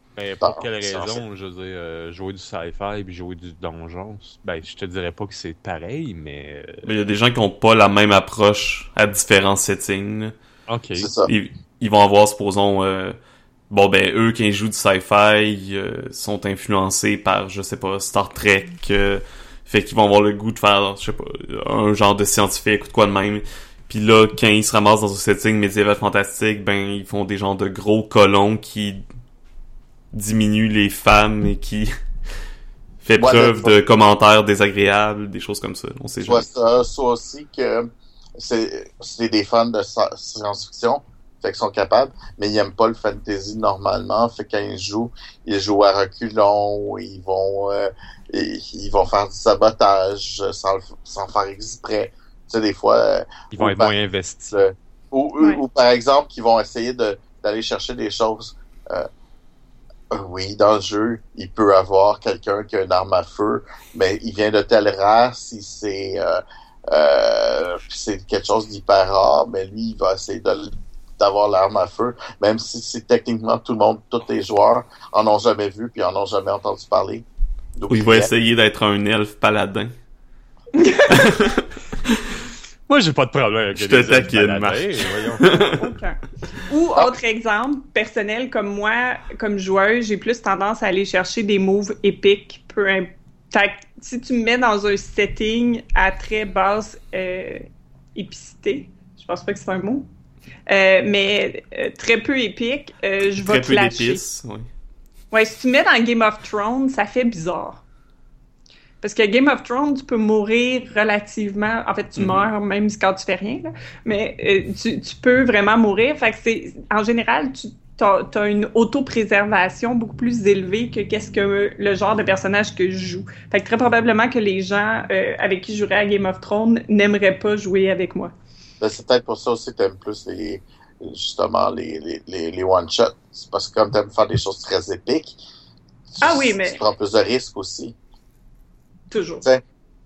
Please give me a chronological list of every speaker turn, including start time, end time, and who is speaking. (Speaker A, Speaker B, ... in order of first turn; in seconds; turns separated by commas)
Speaker A: 0.1-6.9, Speaker B: 0.4-1.2, Speaker C: 6.8-10.3, Speaker A: 10.7-11.1, Speaker B: 10.9-11.3, Speaker C: 11.3-13.2, Speaker C: 13.7-29.0, Speaker C: 30.1-31.9, Speaker C: 33.0-36.5, Speaker B: 33.2-33.8, Speaker B: 36.2-53.9, Speaker A: 53.5-54.5, Speaker B: 54.5-59.1, Speaker B: 60.1-78.3, Speaker C: 77.9-79.9, Speaker D: 80.7-81.5, Speaker C: 81.1-81.6, Speaker A: 82.9-85.4, Speaker C: 83.7-85.6, Speaker D: 85.5-100.1, Speaker D: 100.7-104.2, Speaker C: 103.4-104.7, Speaker D: 105.3-107.8, Speaker D: 109.0-128.3, Speaker C: 112.2-112.5, Speaker B: 128.8-135.3, Speaker B: 136.1-137.9, Speaker D: 136.2-136.8, Speaker D: 139.1-139.4